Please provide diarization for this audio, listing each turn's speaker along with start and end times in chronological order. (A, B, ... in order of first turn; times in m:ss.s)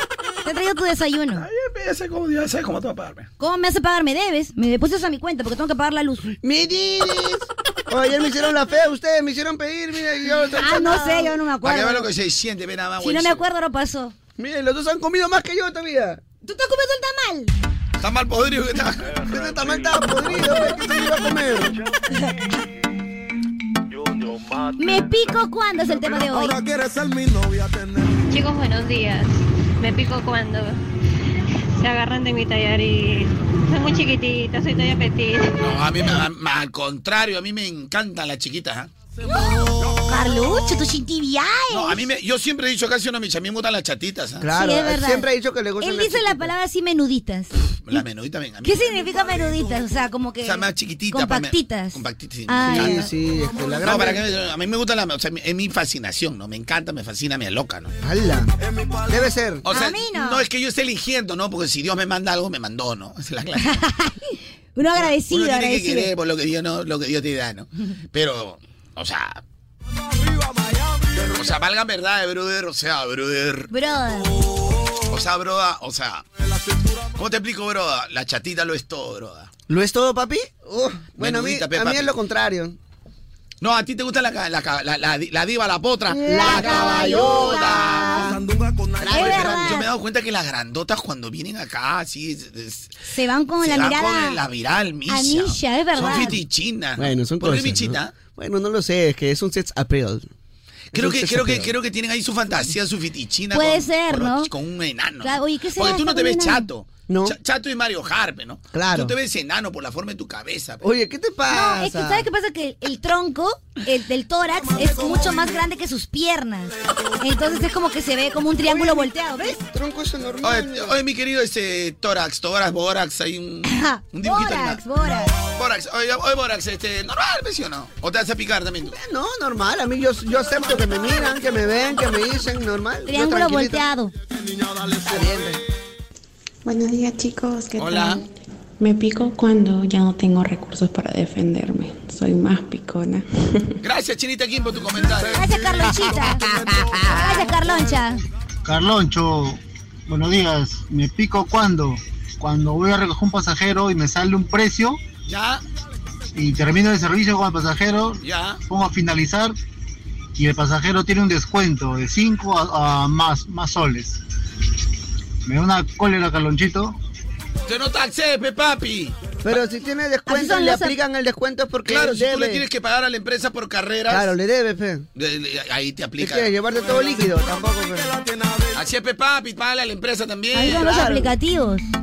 0:00.4-0:01.4 A
0:01.3-0:03.3 B
0:03.4-0:06.3 A
0:06.4-0:11.3 C
0:10.6-0:12.0 A
0:11.6-0:13.4 B
0:13.0-0:14.1 A
0:14.4-0:16.2 C
0:16.4-0:17.5 A
0:18.0-0:19.1 B
0:19.2-0:21.7 C
0:24.8-0:26.6 A
0:28.3-0:30.8 D
0:31.8-0:35.5 D
0:35.6-0:38.9 B
0:39.2-0:42.0 A
0:39.5-0:40.4 B
0:41.7-0:44.5 B
0:44.4-0:46.5 C
0:44.5-0:45.3 A
0:45.8-0:47.5 A
0:47.8-0:49.0 B
0:48.6-0:53.1 A
0:50.4-0:53.1 B
0:52.6-0:54.2 C
0:53.8-0:57.9 B
0:58.0-0:58.5 C
0:59.0-0:59.6 C
0:59.6-1:03.8 B
0:59.7-1:00.4 A
1:03.6-1:04.1 A
1:04.7-1:06.1 A
1:05.0-1:09.4 B
1:11.2-1:13.7 B
1:13.7-1:14.3 A
1:15.1-1:16.2 B
1:17.2-1:19.5 B
1:19.7-1:22.8 C
1:21.2-1:22.1 B
1:23.6-1:28.4 B
1:26.1-1:28.4 C
1:26.2-1:28.3 A
1:29.0-1:29.8 C
1:29.0-1:32.9 B
1:29.1-1:29.8 A
1:33.1-1:34.4 A
1:33.6-1:38.1 B
1:35.1-1:36.4 A
1:37.0-1:40.3 C
1:40.9-1:41.7 C
1:40.9-1:50.8 B
1:43.5-1:44.5 A
1:45.2-1:46.7 A
1:47.1-1:47.4 C
1:48.7-1:49.1 C
1:50.8-1:52.2 C
1:51.5-1:59.6 A
1:58.6-2:01.0 C
2:00.4-2:04.8 B
2:03.7-2:05.3 A
2:05.5-2:09.0 B
2:08.9-2:13.8 C
2:13.0-2:14.1 A
2:15.0-2:15.6 C
2:16.6-2:18.2 E
2:17.8-2:18.2 B
2:18.8-2:23.6 E
2:23.8-2:26.1 B
2:25.3-2:26.4 A
2:27.0-2:28.2 A
2:28.6-2:35.0 F
2:35.3-2:35.6 B
2:36.3-2:39.5 F
2:38.2-2:38.6 B
2:40.4-2:44.2 F
2:45.4-2:46.9 F
2:47.7-2:49.2 B
2:49.4-2:52.6 C
2:50.3-2:51.0 A
2:51.8-2:54.3 B
2:54.1-2:55.1 C
2:55.2-2:56.5 B
2:56.2-2:58.1 C
2:58.7-3:00.9 B
3:00.5-3:01.9 A
3:00.6-3:01.3 C